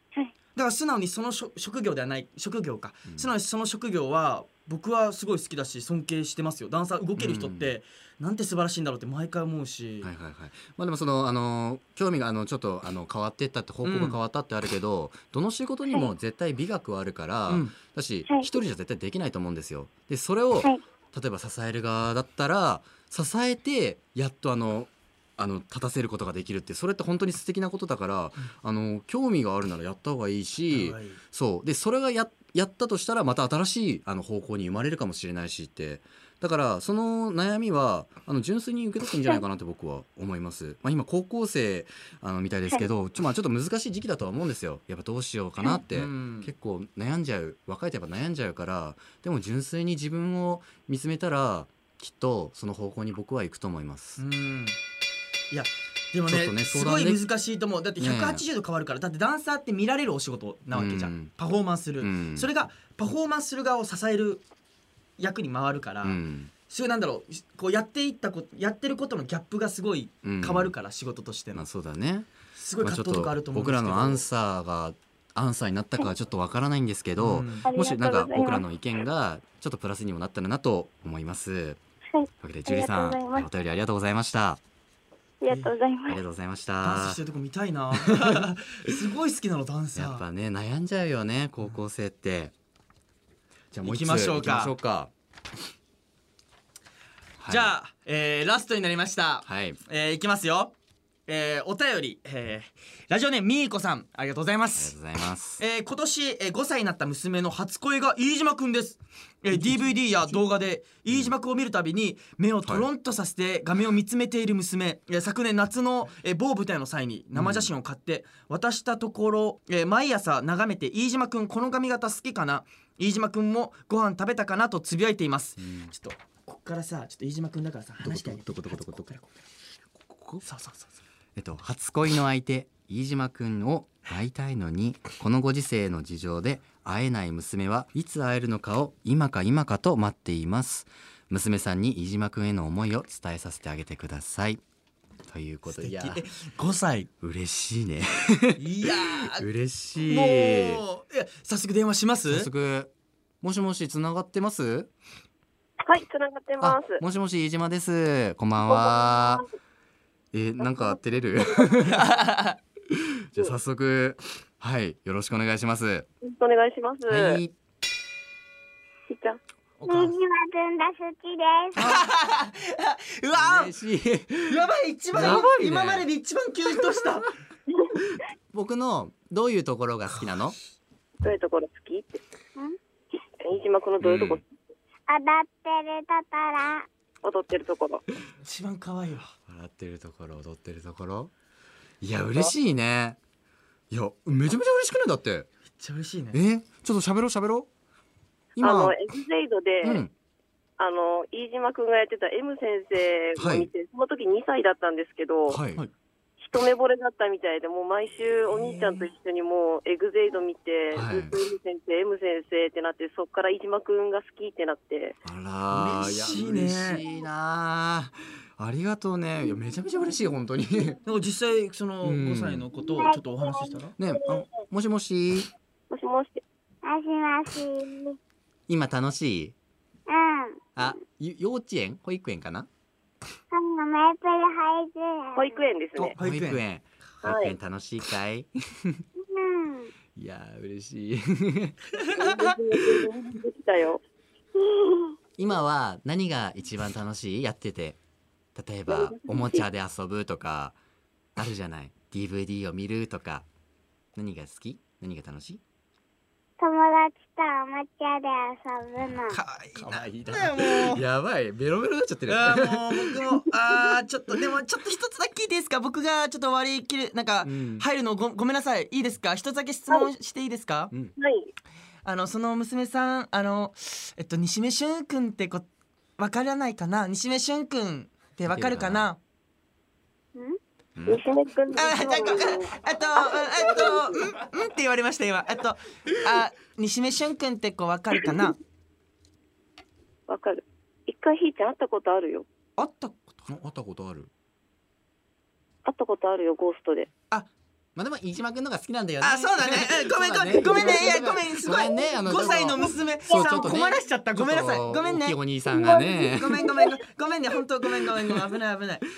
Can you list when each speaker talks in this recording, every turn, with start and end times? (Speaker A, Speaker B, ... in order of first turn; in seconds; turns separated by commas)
Speaker A: 0.6-10.1, Speaker B: 7.2-7.8, Speaker B: 10.0-54.2, Speaker A: 13.8-14.2, Speaker A: 17.5-17.8, Speaker C: 18.3-18.5, Speaker A: 30.7-31.2, Speaker A: 45.9-46.5, Speaker A: 54.2-54.8, Speaker A: 55.5-64.4, Speaker B: 56.3-57.2, Speaker B: 58.0-58.4, Speaker B: 60.7-61.3, Speaker B: 62.0-62.5, Speaker A: 65.2-71.6, Speaker B: 66.0-66.5, Speaker B: 70.2-70.7, Speaker B: 71.5-72.3, Speaker A: 72.6-74.2, Speaker B: 72.8-81.8, Speaker A: 77.2-77.7, Speaker C: 77.7-78.7, Speaker C: 82.1-83.5, Speaker B: 82.4-84.6, Speaker C: 85.4-86.2, Speaker B: 86.1-87.2, Speaker A: 86.8-90.2, Speaker B: 88.1-88.4, Speaker B: 90.0-92.5, Speaker B: 93.7-95.1, Speaker A: 93.8-94.7, Speaker B: 97.4-97.7, Speaker A: 97.5-100.7, Speaker B: 99.5-99.8, Speaker A: 101.3-105.0, Speaker B: 104.8-105.6, Speaker A: 105.6-129.3, Speaker B: 117.3-117.7, Speaker B: 125.6-125.9, Speaker B: 128.0-129.1, Speaker B: 129.9-130.4, Speaker A: 130.4-130.9, Speaker B: 131.4-144.6, Speaker B: 145.3-146.2, Speaker A: 145.7-147.1, Speaker B: 147.2-150.8, Speaker A: 148.6-149.5, Speaker A: 150.0-152.5, Speaker B: 152.3-152.9, Speaker B: 153.4-154.9, Speaker D: 155.8-157.0, Speaker B: 156.6-159.4, Speaker D: 158.6-159.5, Speaker B: 160.3-162.1, Speaker D: 160.6-161.8, Speaker A: 161.9-162.6, Speaker B: 162.9-166.1, Speaker D: 166.2-167.4, Speaker B: 167.1-167.5, Speaker D: 169.1-169.4, Speaker B: 169.8-170.1, Speaker E: 169.8-172.0, Speaker A: 171.8-173.7, Speaker B: 173.4-174.6, Speaker A: 174.5-177.3, Speaker B: 175.1-176.1, Speaker B: 178.5-180.6, Speaker D: 181.2-182.2, Speaker D: 183.4-184.4, Speaker B: 184.0-184.4, Speaker E: 185.1-186.9, Speaker D: 187.2-188.0, Speaker A: 188.4-189.3, Speaker B: 189.5-191.3, Speaker B: 192.0-193.2, Speaker B: 193.9-195.5, Speaker A: 195.8-196.4, Speaker B: 196.3-197.7, Speaker B: 198.6-199.0, Speaker D: 198.6-200.1, Speaker B: 199.8-200.1, Speaker D: 200.8-205.6, Speaker B: 203.4-203.7, Speaker B: 205.5-205.8, Speaker D: 206.4-215.2, Speaker B: 210.9-211.4, Speaker B: 215.2-221.0, Speaker A: 215.7-217.0, Speaker A: 221.1-223.9, Speaker B: 222.0-222.7, Speaker E: 222.8-224.5, Speaker B: 224.0-225.5, Speaker D: 225.9-226.4, Speaker E: 226.8-228.2, Speaker B: 228.7-229.6, Speaker E: 230.1-230.9, Speaker B: 230.8-232.7, Speaker E: 233.5-235.6, Speaker D: 235.4-236.2, Speaker A: 236.0-236.6, Speaker B: 236.2-239.0, Speaker D: 237.2-237.6, Speaker E: 239.2-239.9, Speaker B: 240.2-241.9, Speaker A: 242.0-242.4, Speaker D: 242.2-244.0, Speaker E: 244.8-245.1, Speaker B: 245.4-248.0, Speaker B: 248.6-250.8, Speaker D: 248.9-249.7, Speaker B: 251.4-253.5, Speaker B: 254.2-255.6, Speaker E: 256.6-259.4, Speaker A: 259.3-261.0, Speaker B: 259.8-263.4, Speaker A: 262.3-270.9, Speaker B: 267.4-267.9, Speaker D: 271.2-271.5, Speaker A: 272.1-275.7, Speaker A: 276.2-279.2, Speaker B: 278.5-279.1, Speaker B: 281.0-281.2, Speaker D: 281.1-282.6, Speaker A: 281.7-288.6, Speaker E: 282.0-282.6, Speaker D: 283.2-284.1, Speaker E: 283.4-283.9, Speaker D: 290.3-292.5, Speaker A: 292.8-293.5, Speaker B: 293.5-294.3, Speaker D: 295.9-297.1, Speaker B: 298.0-306.9, Speaker A: 299.2-305.4, Speaker E: 300.6-302.0, Speaker E: 303.3-303.9, Speaker E: 305.8-307.0, Speaker A: 306.2-309.1